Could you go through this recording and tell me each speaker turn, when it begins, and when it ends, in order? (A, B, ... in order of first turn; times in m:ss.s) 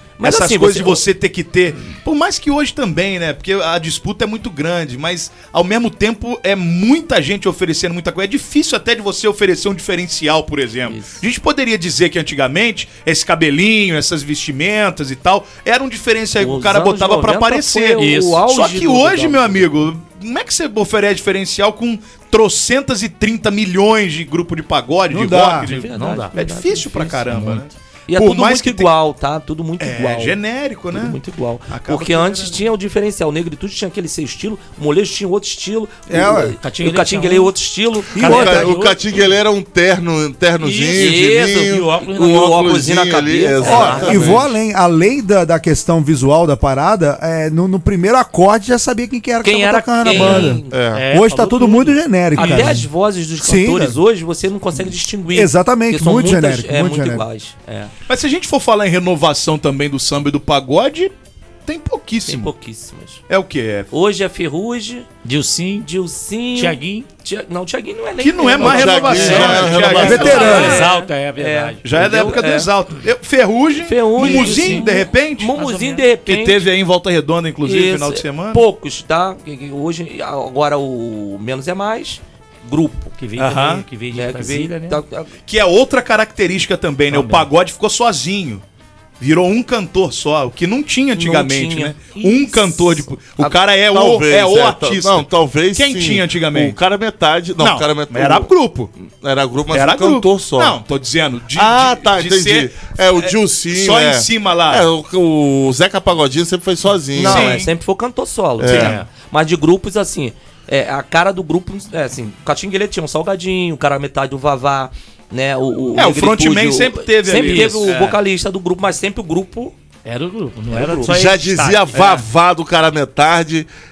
0:00.2-0:01.0 A
0:00.2-0:28.9 B
0:10.9-0:11.2 A
0:16.4-0:19.9 A
0:18.0-0:18.5 C
0:25.1-0:25.7 D
0:25.7-0:26.3 C
0:25.7-0:30.4 A
0:29.8-0:31.2 B
0:30.9-0:38.7 A
0:31.7-0:32.7 B
0:36.1-0:36.6 D
0:36.6-0:37.5 C
0:38.2-0:38.7 D
0:38.2-0:39.3 C
0:38.2-0:44.4 E
0:40.6-0:42.7 C
0:40.9-0:44.5 A
0:43.6-0:52.9 D
0:43.6-0:44.4 C
0:49.4-0:50.8 A
0:50.2-0:52.8 C
0:50.2-0:51.1 E
0:52.4-0:57.9 A
0:53.4-0:54.0 D
0:55.3-0:57.3 D
0:58.1-1:01.1 B
1:01.7-1:02.5 B
1:02.3-1:03.2 A
1:03.3-1:03.9 B
1:03.9-1:05.1 A
1:05.2-1:05.9 C
1:05.8-1:12.7 A
1:06.6-1:07.1 C
1:08.2-1:10.8 B
1:08.6-1:10.6 E
1:09.2-1:12.2 C
1:10.1-1:10.9 D
1:11.8-1:15.6 B
1:13.8-1:16.6 A
1:14.2-1:16.1 C
1:16.2-1:18.6 B
1:17.6-1:23.1 A
1:23.2-1:25.0 C
1:23.4-1:23.9 B
1:24.1-1:25.3 A
1:25.5-1:28.6 B
1:27.1-1:27.5 C
1:29.2-1:36.8 B
1:31.2-1:33.5 A
1:32.2-1:32.4 C
1:33.9-1:38.5 E
1:37.6-1:38.9 B
1:39.0-1:40.8 E
1:39.7-1:44.9 B
1:41.6-1:47.6 E
1:47.2-1:59.8 A
1:47.2-1:47.7 B
1:48.6-1:49.0 E
1:48.7-1:49.0 B
1:48.8-1:49.1 C
1:56.0-1:58.2 B
2:00.0-2:02.0 C
2:00.7-2:01.2 A
2:01.0-2:03.7 E
2:01.9-2:02.2 B